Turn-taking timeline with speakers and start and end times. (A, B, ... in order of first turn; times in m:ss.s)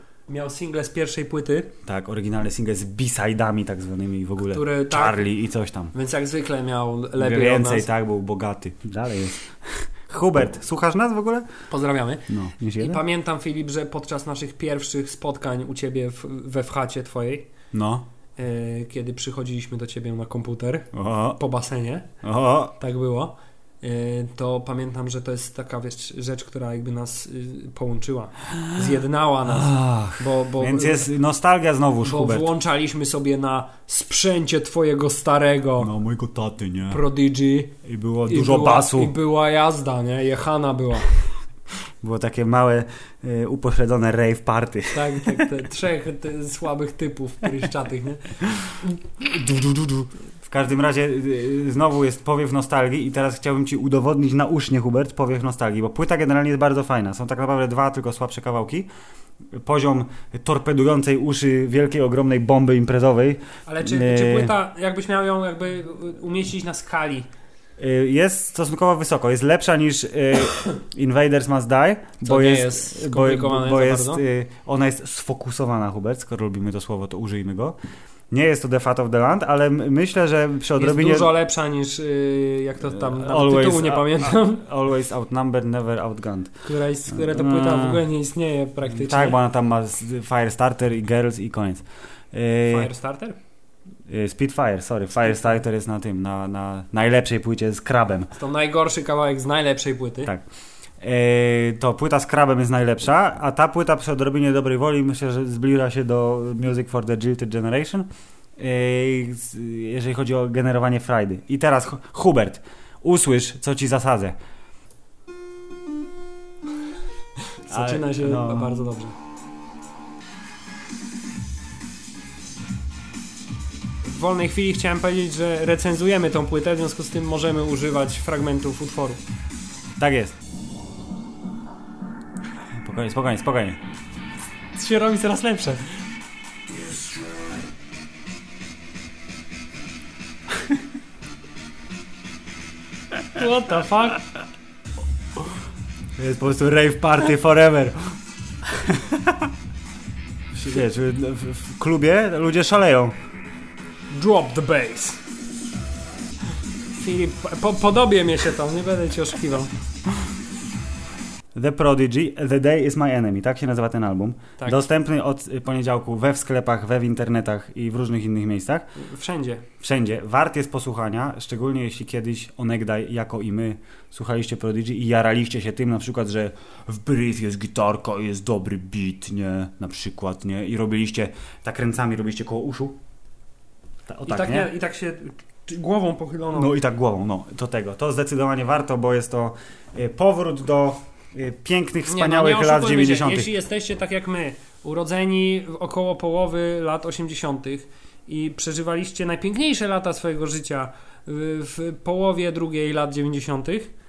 0:00.3-0:01.7 A
0:01.8-0:05.9 B
0:04.5-0:05.2 A
0:05.9-0:07.9 A
0:07.2-0:11.5 B
0:11.7-0:17.5 A
0:12.3-0:13.0 B
0:17.7-0:18.0 B
0:18.4-0:22.1 A
0:20.9-0:21.4 B
0:22.2-0:22.8 B
0:22.8-0:31.1 A
0:29.5-0:32.5 B
0:32.0-0:35.9 A
0:35.8-0:37.0 B
0:36.9-0:37.7 A
0:37.8-0:39.1 B
0:38.3-0:41.1 A
0:42.0-0:45.5 B
0:44.9-0:48.4 A
0:49.2-0:58.9 B
0:59.5-1:04.5 B
1:03.7-1:07.3 A
1:07.8-1:17.8 B
1:12.2-1:14.2 A
1:18.3-1:21.3 B
1:20.8-1:24.6 A
1:22.9-1:26.5 B
1:26.6-1:29.4 A
1:27.1-1:28.0 B
1:28.9-1:32.9 B
1:32.7-1:33.4 A
1:34.1-1:38.3 B
1:38.4-1:40.3 A
1:41.0-1:54.4 B
1:57.7-1:59.2 A
1:57.7-1:58.8 B
2:04.0-2:09.2 A
2:10.0-2:10.4 B
2:12.8-2:13.8 B
2:14.7-2:16.0 A
2:23.3-2:24.2 A
2:26.2-2:28.2 B
2:28.7-2:29.4 B
2:30.6-2:33.2 B
2:34.1-2:35.2 A
2:37.0-2:39.7 A
2:41.6-2:48.9 B
2:44.6-2:44.8 A
2:49.0-2:49.7 A
2:49.8-3:03.0 B
3:04.1-3:04.7 B
3:04.3-3:06.7 A
3:06.5-3:13.5 B
3:12.1-3:23.9 A